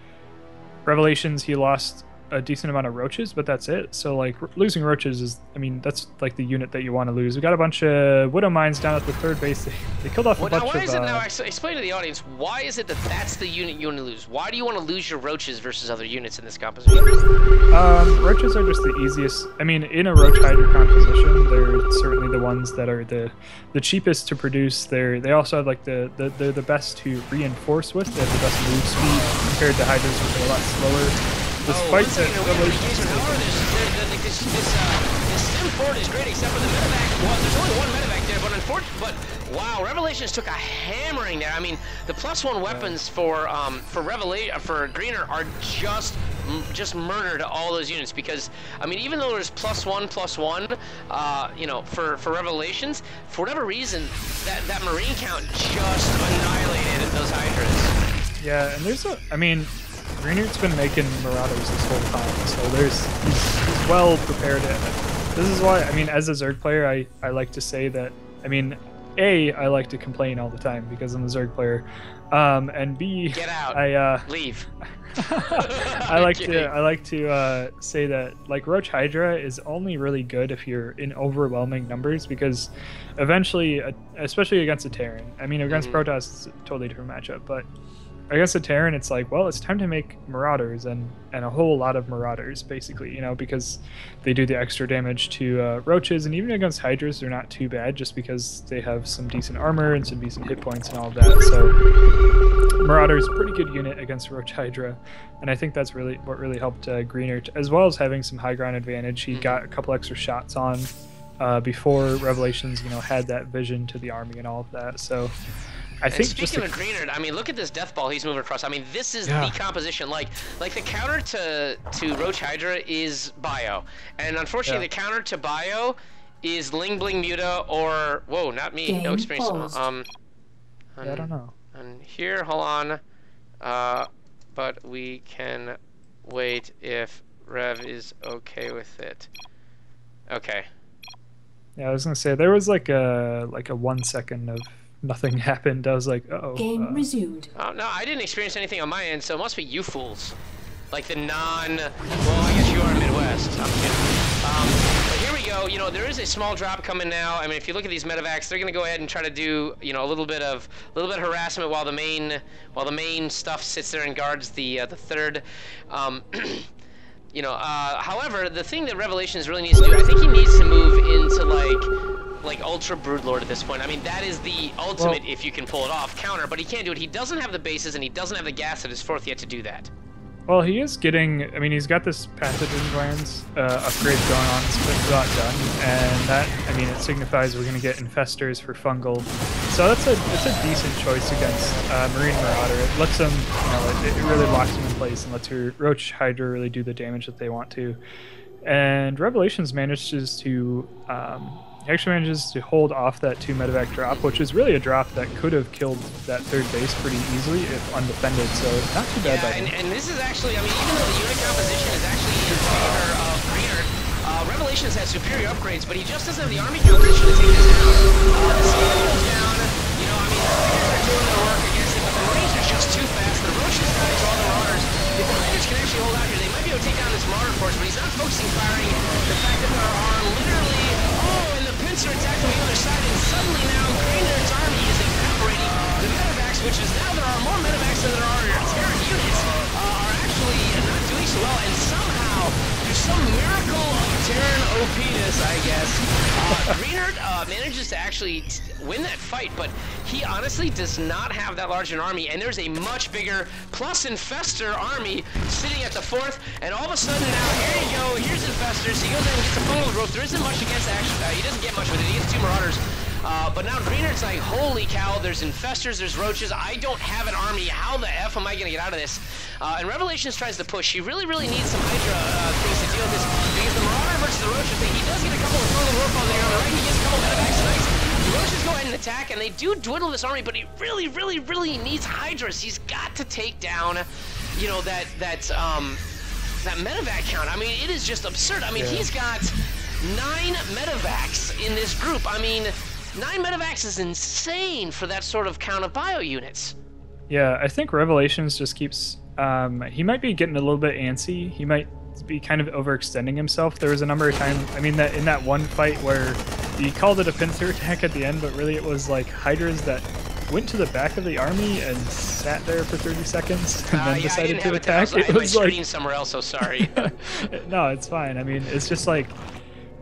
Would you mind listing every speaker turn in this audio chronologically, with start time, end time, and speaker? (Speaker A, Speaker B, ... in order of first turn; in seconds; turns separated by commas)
Speaker A: 0.8-11.2, Speaker B: 10.4-17.1, Speaker A: 17.7-33.4, Speaker B: 31.6-57.9, Speaker A: 42.7-43.0, Speaker A: 58.4-74.3, Speaker B: 73.3-76.7, Speaker A: 75.1-87.7, Speaker B: 85.7-86.0, Speaker A: 88.3-101.8, Speaker A: 102.8-115.3, Speaker B: 109.3-109.6, Speaker A: 116.0-116.7, Speaker B: 116.1-130.1, Speaker A: 119.2-119.6, Speaker C: 128.8-129.8, Speaker B: 130.9-133.0, Speaker A: 131.0-131.5, Speaker B: 133.6-139.3, Speaker B: 140.3-140.7, Speaker A: 141.8-147.1, Speaker C: 146.5-147.5, Speaker B: 147.5-150.3, Speaker B: 150.9-166.7, Speaker B: 167.3-171.9, Speaker B: 172.4-179.9, Speaker A: 180.5-198.0, Speaker A: 198.6-209.7, Speaker B: 204.1-204.4, Speaker B: 209.2-286.0, Speaker A: 216.4-216.7, Speaker A: 246.5-246.8, Speaker B: 286.6-296.8, Speaker A: 288.8-289.1, Speaker A: 297.3-315.8, Speaker B: 313.9-317.3, Speaker A: 316.8-319.4